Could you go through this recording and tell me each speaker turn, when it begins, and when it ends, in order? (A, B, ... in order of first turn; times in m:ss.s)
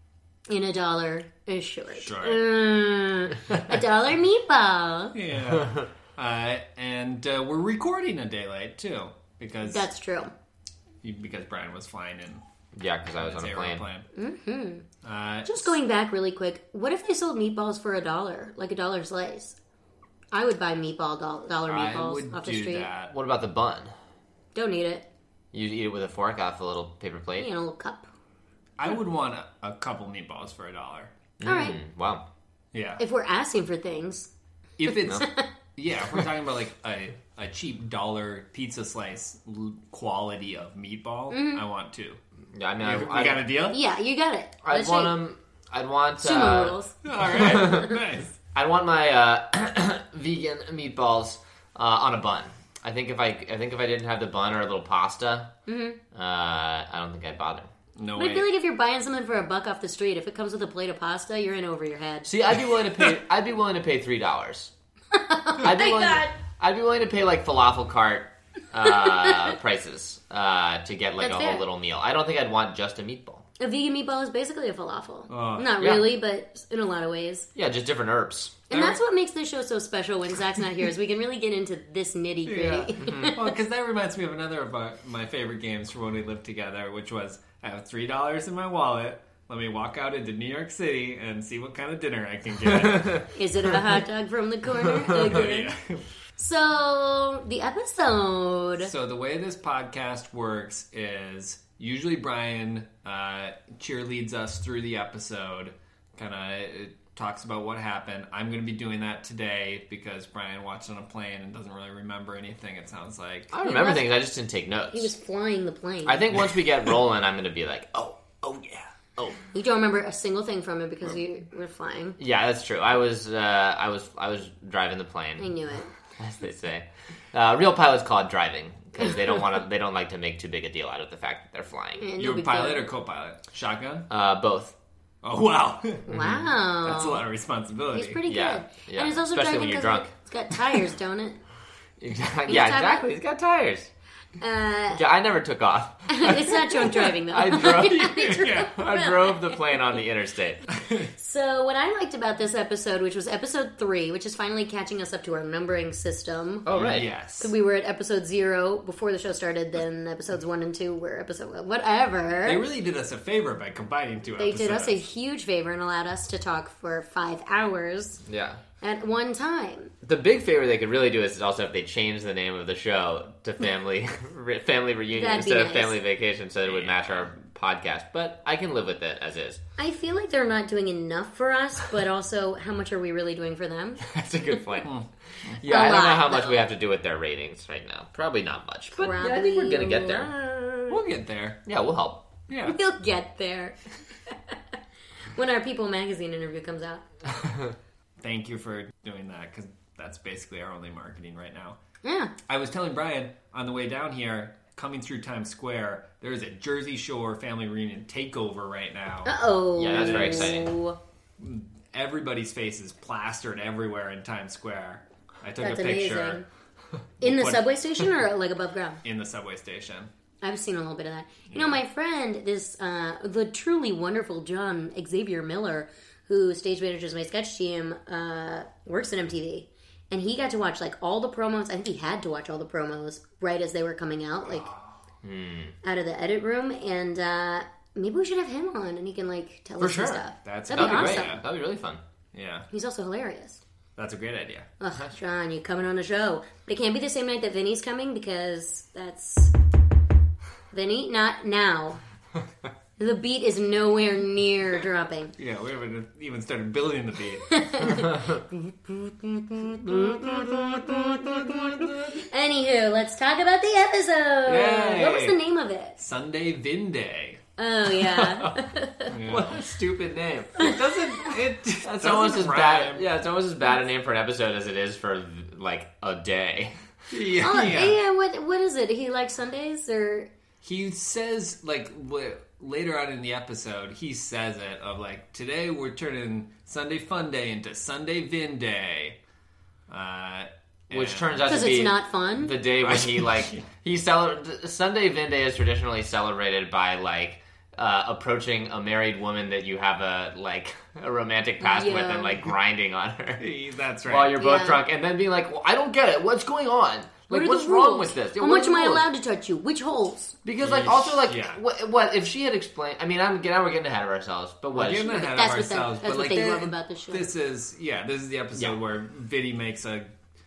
0:00.5-0:05.2 A
0:02.0-0:02.4 B
0:05.1-0:09.9 B
0:09.6-0:10.3 A
0:11.0-0:12.4 B
0:12.7-0:13.8 C
0:13.1-0:14.1 B
0:14.1-0:14.8 A
0:15.0-0:15.8 B
0:15.4-0:19.6 A
0:20.3-0:22.9 A
0:21.6-0:23.1 B
0:23.1-0:23.9 C
0:24.5-0:25.0 A
0:25.5-0:27.5 C
0:27.4-0:28.1 A
0:28.8-0:31.1 B
0:31.4-0:32.2 C
0:31.4-0:31.8 A
0:32.7-0:33.0 B
0:33.0-0:34.3 A
0:34.8-0:42.2 B
0:35.0-0:35.5 A
0:41.3-0:41.6 A
0:42.5-0:43.5 C
0:42.8-0:43.8 B
0:43.7-0:45.2 A
0:44.6-0:46.8 C
0:46.2-0:46.9 A
0:47.0-0:48.4 B
0:47.3-0:48.0 C
0:48.5-0:55.5 C
0:55.7-0:56.0 A
0:56.1-0:57.7 C
0:58.0-0:58.5 B
0:58.2-1:02.3 A
1:02.2-1:04.7 C
1:05.1-1:06.3 A
1:05.6-1:13.4 C
1:08.8-1:09.5 A
1:11.2-1:11.6 A
1:13.6-1:17.5 A
1:15.3-1:15.7 B
1:15.8-1:16.1 C
1:17.5-1:18.6 C
1:18.7-1:23.4 A
1:18.7-1:19.0 B
1:22.4-1:34.0 B
1:23.0-1:23.4 C
1:33.3-1:35.7 A
1:34.8-1:36.1 B
1:36.4-1:38.9 A
1:38.8-1:53.5 B
1:53.5-1:55.1 C
1:53.6-1:54.2 A
1:54.9-1:56.5 A
1:56.0-1:59.4 C
1:59.5-2:02.2 A
2:02.2-2:05.5 C
2:05.4-2:05.9 A
2:06.2-2:12.0 C
2:12.0-2:12.8 A
2:12.2-2:14.1 B
2:14.1-2:14.7 C
2:15.2-2:16.1 B
2:16.1-2:17.2 A
2:16.1-2:16.5 C
2:16.8-2:18.2 B
2:17.9-2:21.4 A
2:18.2-2:20.1 C
2:22.0-2:23.9 C
2:22.5-2:23.0 A
2:24.4-2:25.0 A
2:24.9-2:30.6 C
2:26.1-2:29.6 A
2:28.2-2:28.7 B
2:30.7-2:31.1 B
2:31.1-2:36.7 A
2:36.6-2:37.1 C
2:36.7-2:37.5 B
2:37.4-2:42.6 A
2:42.4-2:45.0 B
2:44.4-2:48.2 A
2:48.3-2:48.6 C
2:48.8-2:49.9 A
2:50.0-2:59.6 C
2:55.1-2:56.0 A
2:56.7-2:57.3 B
2:59.8-3:04.0 A
3:04.0-3:05.0 C
3:04.8-3:05.6 B
3:05.6-3:11.0 C
3:05.6-3:06.6 A
3:08.9-3:10.3 A
3:10.9-3:11.6 B
3:11.6-3:12.3 C
3:12.5-3:12.8 B
3:12.6-3:13.8 A
3:14.3-3:14.6 A
3:15.3-3:17.0 A
3:18.2-3:21.8 B
3:22.0-3:22.3 A
3:22.5-3:30.6 B
3:29.2-3:31.0 A
3:29.8-3:30.7 C
3:31.4-3:36.4 B
3:35.6-3:36.4 A
3:37.2-3:39.0 A
3:37.2-3:37.6 B
3:39.0-3:40.1 B
3:40.4-3:54.6 A
3:41.5-3:41.8 B
3:54.5-3:54.9 B
3:55.2-3:55.7 C
3:55.8-4:01.4 A
3:59.8-4:02.0 C
4:00.4-4:01.4 B
4:02.3-4:02.7 B
4:02.7-4:03.6 A
4:04.0-4:04.7 B
4:04.8-4:09.5 A
4:10.7-4:12.0 A
4:13.0-4:15.3 A
4:15.4-4:17.5 B
4:17.5-4:21.5 A
4:17.9-4:18.4 C
4:19.8-4:21.7 C
4:21.1-4:21.9 B
4:22.1-4:26.0 A
4:24.4-4:25.4 B
4:26.0-4:27.4 B
4:27.6-4:29.1 A
4:28.1-4:28.6 C
4:29.1-4:29.6 B
4:29.2-4:30.7 C
4:30.6-4:33.1 B
4:31.8-4:36.8 C
4:37.1-4:38.0 B
4:37.4-4:40.3 A
4:40.6-4:49.2 B
4:49.9-4:51.6 B
4:50.9-5:03.5 C
4:51.4-4:52.6 A
4:52.8-4:53.6 B
5:01.6-5:02.5 A
5:03.4-5:04.4 B
5:04.0-5:09.1 C
5:04.4-5:04.8 A
5:07.3-5:10.3 A
5:10.4-5:15.2 C
5:10.6-5:11.6 B
5:14.7-5:20.1 B
5:15.1-5:17.3 A